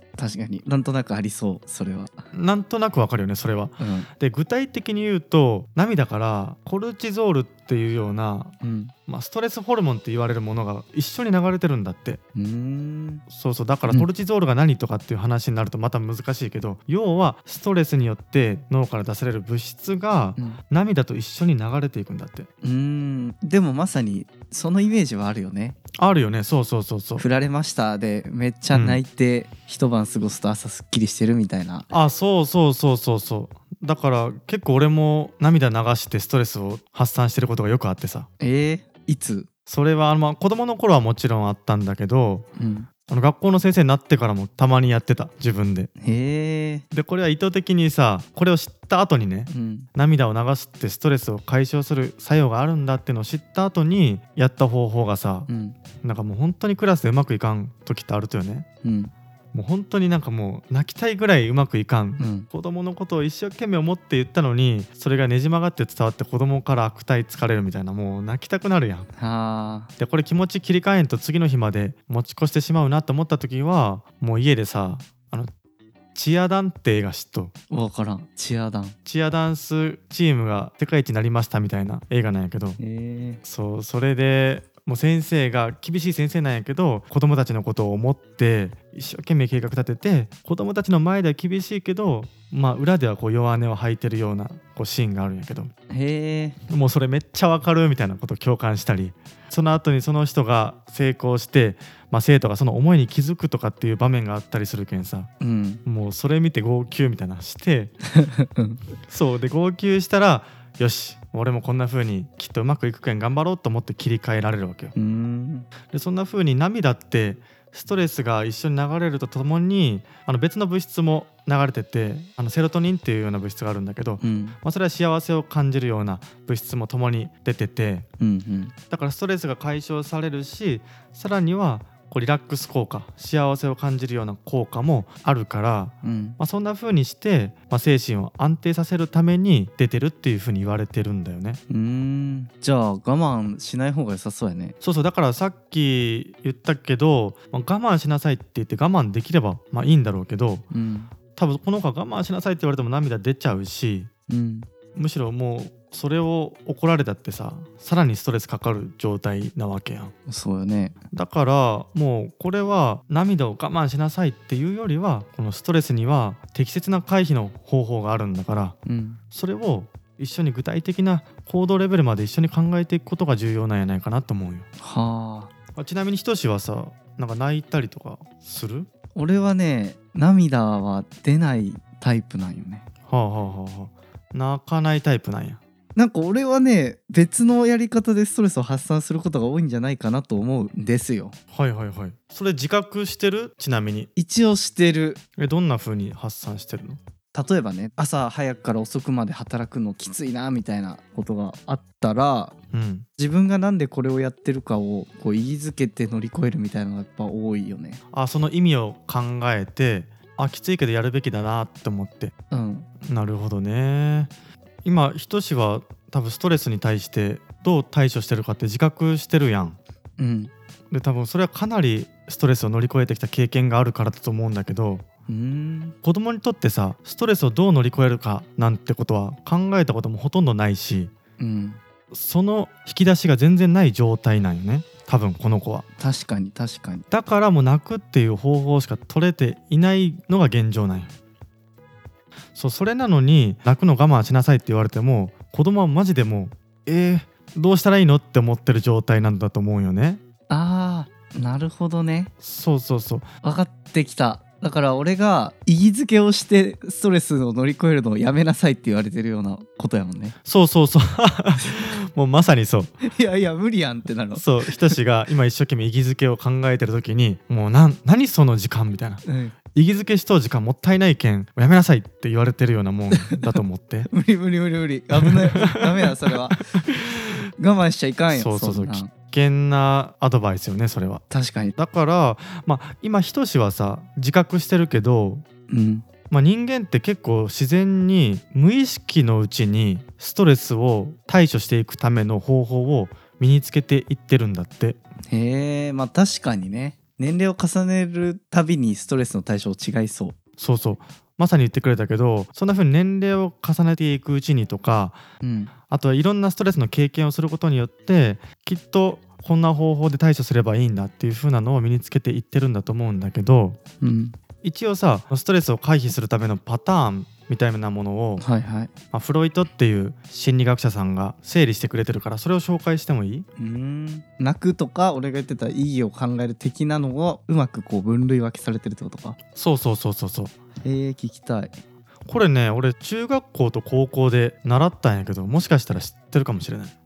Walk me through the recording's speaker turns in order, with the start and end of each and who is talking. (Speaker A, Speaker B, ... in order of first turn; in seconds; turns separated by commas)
Speaker A: 0.2-2.2, Speaker B: 2.3-8.5, Speaker A: 3.8-4.1, Speaker A: 8.6-8.9, Speaker B: 9.1-12.2, Speaker A: 12.3-13.2, Speaker B: 13.3-22.5, Speaker A: 22.6-25.8, Speaker B: 25.9-27.2, Speaker A: 27.2-31.9, Speaker B: 28.7-29.0, Speaker B: 31.9-38.3, Speaker A: 38.4-39.5, Speaker B: 39.7-42.5, Speaker A: 42.6-42.9, Speaker B: 43.1-45.9, Speaker A: 46.0-46.8, Speaker B: 46.9-55.5, Speaker A: 49.5-49.9, Speaker A: 55.5-55.8, Speaker B: 56.0-58.6, Speaker A: 58.8-59.1, Speaker B: 59.5-69.1, Speaker A: 62.2-62.5, Speaker A: 69.2-69.9, Speaker B: 70.0-75.5, Speaker B: 76.1-77.5, Speaker A: 77.7-79.0, Speaker B: 79.0-82.8, Speaker A: 82.8-83.4, Speaker B: 83.4-95.7, Speaker A: 95.9-96.6, Speaker B: 96.7-105.3, Speaker A: 105.4-105.8, Speaker B: 105.8-107.9, Speaker A: 108.0-108.8, Speaker B: 109.1-114.9, Speaker A: 114.9-115.7, Speaker B: 115.9-128.1, Speaker A: 124.2-124.6, Speaker A: 128.2-128.7, Speaker B: 128.9-141.6, Speaker A: 136.0-136.4, Speaker A: 141.7-144.8, Speaker B: 144.8-150.7, Speaker A: 150.7-151.1, Speaker B: 151.3-154.1, Speaker A: 154.3-154.7, Speaker B: 154.9-160.1, Speaker A: 160.3-160.9, Speaker B: 161.1-168.8, Speaker A: 168.8-169.2, Speaker B: 169.3-174.7, Speaker A: 174.8-175.5, Speaker B: 175.8-178.9, Speaker A: 179.1-182.8, Speaker B: 183.1-185.6, Speaker A: 185.9-191.3, Speaker B: 191.5-194.1, Speaker A: 194.2-195.2, Speaker B: 195.4-197.0, Speaker A: 197.3-202.5, Speaker B: 202.7-203.1, Speaker A: 203.2-208.0, Speaker B: 208.1-212.3, Speaker A: 212.5-212.9, Speaker B: 213.0-214.3, Speaker B: 214.8-219.8, Speaker A: 220.2-220.5, Speaker B: 220.9-225.0, Speaker A: 225.3-225.9, Speaker B: 226.0-231.1, Speaker A: 231.4-231.8, Speaker B: 232.1-235.8, Speaker A: 236.0-237.1, Speaker B: 237.1-241.1, Speaker B: 242.5-250.2, Speaker A: 250.5-252.3, Speaker B: 252.4-253.3, Speaker A: 253.4-260.4, Speaker B: 260.4-262.9, Speaker A: 263.0-265.0, Speaker B: 264.3-274.1, Speaker A: 269.2-269.6, Speaker A: 273.1-273.6, Speaker A: 274.1-276.6, Speaker B: 275.2-277.1, Speaker A: 277.6-279.1, Speaker B: 278.3-281.2, Speaker A: 281.3-281.7, Speaker B: 281.8-285.4, Speaker A: 285.7-286.0, Speaker B: 286.3-295.0, Speaker A: 295.3-300.4, Speaker B: 300.6-305.2, Speaker A: 305.4-305.7, Speaker B: 305.9-313.8, Speaker A: 314.0-314.4, Speaker B: 314.6-318.4, Speaker A: 318.4-318.9, Speaker B: 319.1-323.4, Speaker A: 323.6-329.4, Speaker B: 329.6-330.5, Speaker A: 330.8-331.8, Speaker B: 332.2-336.9